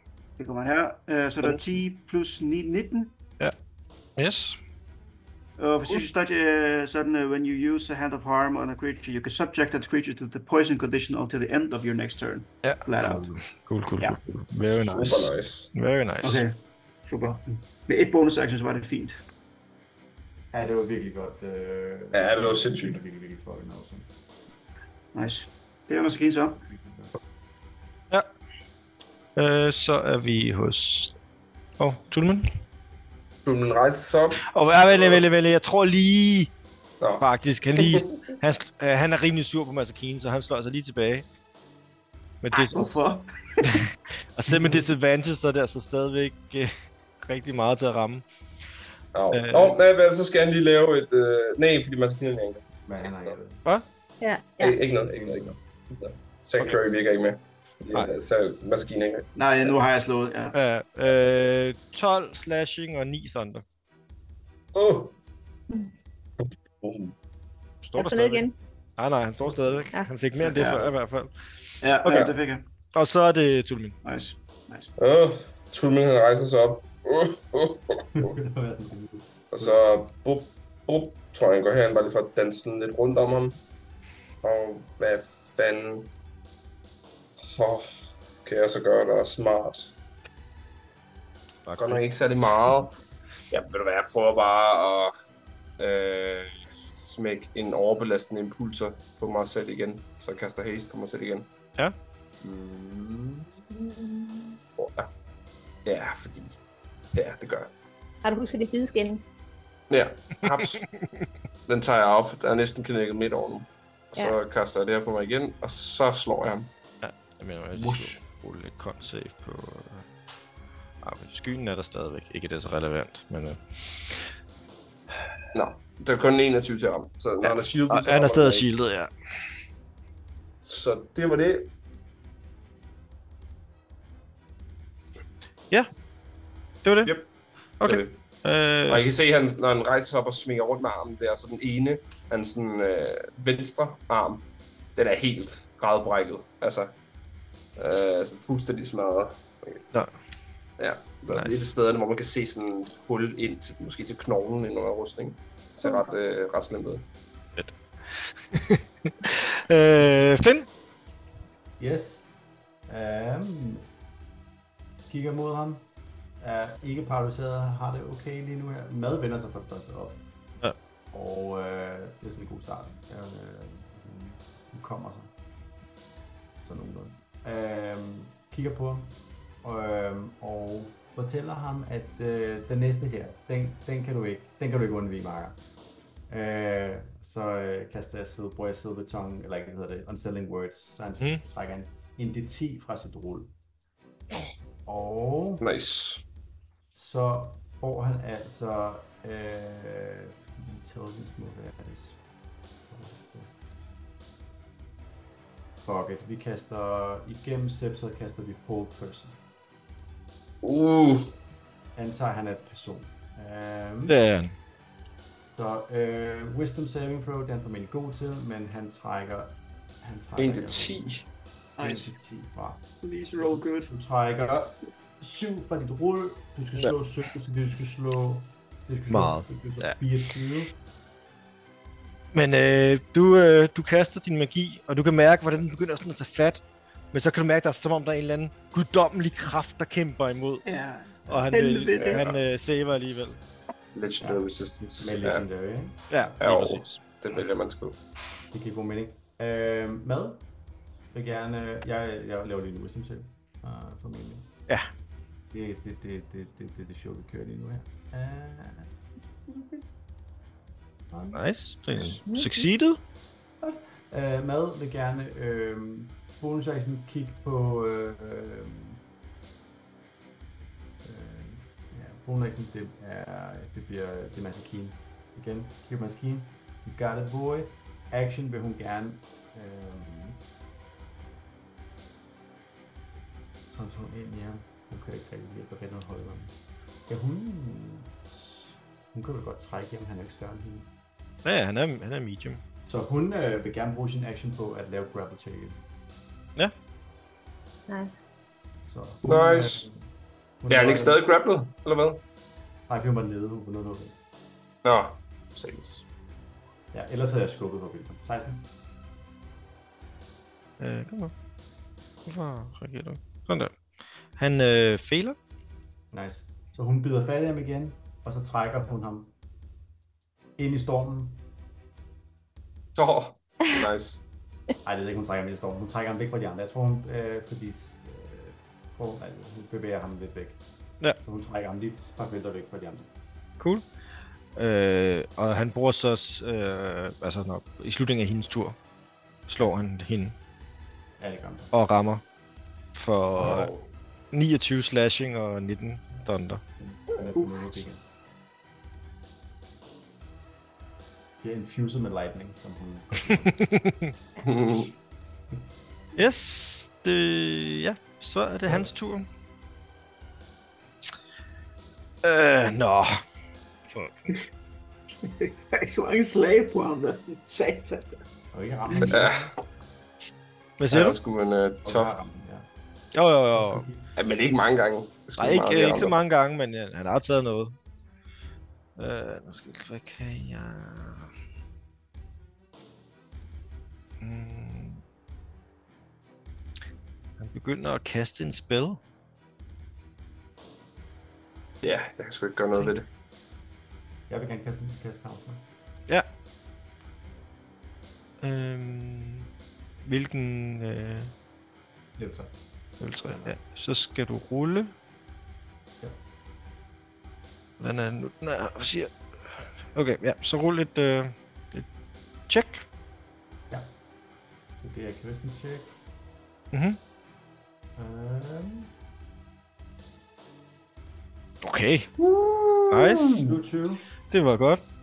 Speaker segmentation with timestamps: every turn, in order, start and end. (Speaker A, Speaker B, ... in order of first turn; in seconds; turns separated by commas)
Speaker A: 0.4-3.1, Speaker B: 4.2-4.6, Speaker A: 5.6-13.3, Speaker B: 12.6-16.5, Speaker C: 14.6-15.7, Speaker A: 16.2-19.2, Speaker D: 20.5-24.1, Speaker C: 22.1-23.0, Speaker A: 25.1-26.6, Speaker D: 26.6-27.1, Speaker B: 29.4-31.2, Speaker B: 31.8-32.5, Speaker C: 33.5-35.2, Speaker B: 34.4-36.5, Speaker C: 37.0-38.2, Speaker B: 37.2-41.3, Speaker B: 42.4-43.0, Speaker A: 42.5-43.7, Speaker B: 43.6-48.2, Speaker D: 44.5-44.9, Speaker C: 49.1-53.3, Speaker B: 49.3-49.8, Speaker D: 52.9-53.7, Speaker E: 54.2-54.8, Speaker C: 54.6-59.3, Speaker D: 55.2-55.5, Speaker A: 59.4-60.6, Speaker B: 60.5-63.6, Speaker C: 64.8-65.2, Speaker C: 66.4-67.1, Speaker B: 67.8-71.3, Speaker E: 68.0-68.5, Speaker A: 70.4-70.9, Speaker A: 71.8-72.7, Speaker B: 72.0-72.3, Speaker B: 72.9-74.0, Speaker A: 74.0-74.9, Speaker C: 75.0-78.3, Speaker D: 78.1-79.8, Speaker C: 79.5-83.6, Speaker C: 84.4-86.1, Speaker C: 87.5-90.0, Speaker B: 91.7-92.0, Speaker C: 91.8-92.9, Speaker C: 93.5-95.1, Speaker C: 95.8-101.5, Speaker D: 102.4-103.5, Speaker E: 103.8-104.6, Speaker C: 104.8-105.1, Speaker C: 105.9-106.6, Speaker C: 107.2-107.7, Speaker E: 108.2-109.2, Speaker C: 109.9-110.8, Speaker B: 110.5-111.2, Speaker C: 111.7-116.7, Speaker B: 117.0-120.1, Speaker C: 117.7-118.2, Speaker B: 121.0-124.3, Speaker C: 125.5-128.7, Speaker B: 127.4-129.1, Speaker C: 130.7-131.7, Speaker B: 136.8-137.2, Speaker B: 137.8-139.1, Speaker C: 137.8-138.2, Speaker C: 138.9-144.4, Speaker C: 145.0-146.9, Speaker C: 147.8-149.9, Speaker C: 150.8-157.1, Speaker B: 157.6-160.7, Speaker D: 161.8-162.3, Speaker D: 162.9-163.9, Speaker D: 165.1-165.8, Speaker D: 166.4-170.2, Speaker D: 171.1-175.3, Speaker D: 176.6-185.6, Speaker D: 186.3-193.5, Speaker D: 194.9-195.6, Speaker C: 195.6-196.2, Speaker D: 196.9-202.2, Speaker D: 202.9-203.5, Speaker D: 205.8-209.4, Speaker C: 210.6-211.4, Speaker D: 212.0-214.2, Speaker B: 214.1-214.5, Speaker D: 215.5-221.1, Speaker C: 220.4-221.3, Speaker A: 221.8-222.1, Speaker D: 221.8-222.8, Speaker A: 223.0-223.9, Speaker D: 223.3-230.7, Speaker B: 229.1-230.0, Speaker B: 232.3-240.7, Speaker A: 240.7-242.3, Speaker D: 241.3-241.5, Speaker B: 241.3-243.4, Speaker C: 243.9-245.4, Speaker D: 244.2-244.5, Speaker D: 245.0-246.0, Speaker B: 246.1-247.0, Speaker C: 246.4-248.0, Speaker D: 248.5-250.5, Speaker D: 251.1-254.5, Speaker D: 255.5-258.9, Speaker D: 259.4-260.0, Speaker D: 261.1-261.4, Speaker B: 261.3-263.0, Speaker E: 262.2-262.7, Speaker D: 263.6-269.0, Speaker D: 271.0-280.4, Speaker D: 283.7-286.6, Speaker D: 287.1-290.9, Speaker B: 291.4-292.6, Speaker D: 292.9-295.8, Speaker E: 297.9-298.3, Speaker D: 298.8-300.1, Speaker C: 299.2-299.8, Speaker D: 300.6-301.3, Speaker C: 300.7-302.2, Speaker D: 302.9-304.2, Speaker C: 304.8-306.1, Speaker D: 306.9-308.7, Speaker B: 310.8-311.3, Speaker B: 312.3-313.8, Speaker B: 314.4-315.4, Speaker D: 316.1-319.3, Speaker D: 320.6-321.4, Speaker C: 322.9-324.2, Speaker D: 324.9-330.6, Speaker D: 331.2-333.1, Speaker B: 333.6-333.8, Speaker B: 334.6-338.8, Speaker B: 339.5-340.4, Speaker D: 341.2-341.7, Speaker B: 341.7-342.2, Speaker B: 342.9-343.7, Speaker D: 343.4-343.9, Speaker B: 344.3-346.6, Speaker D: 346.8-348.0, Speaker D: 351.4-353.6, Speaker B: 353.4-354.1, Speaker C: 354.4-354.9, Speaker B: 356.2-359.3, Speaker B: 362.2-363.2, Speaker A: 365.2-368.2, Speaker D: 368.5-369.5, Speaker C: 369.0-369.5, Speaker B: 370.8-371.2, Speaker C: 370.9-372.2, Speaker D: 371.8-372.7, Speaker B: 373.1-373.9, Speaker D: 373.5-374.1, Speaker C: 374.2-376.2, Speaker B: 375.4-377.7, Speaker B: 379.0-381.3, Speaker B: 384.2-385.0, Speaker B: 387.4-389.0, Speaker C: 391.8-393.1, Speaker D: 394.3-395.7, Speaker B: 398.4-399.5, Speaker B: 400.0-401.3, Speaker D: 402.2-402.5, Speaker B: 403.0-404.9, Speaker D: 403.2-403.6, Speaker B: 407.8-411.9, Speaker B: 412.5-412.9, Speaker D: 414.8-416.0, Speaker B: 416.7-417.0, Speaker D: 418.0-418.9, Speaker B: 421.6-422.1, Speaker C: 422.2-423.5, Speaker B: 422.9-423.4, Speaker D: 423.4-424.1, Speaker B: 424.3-424.8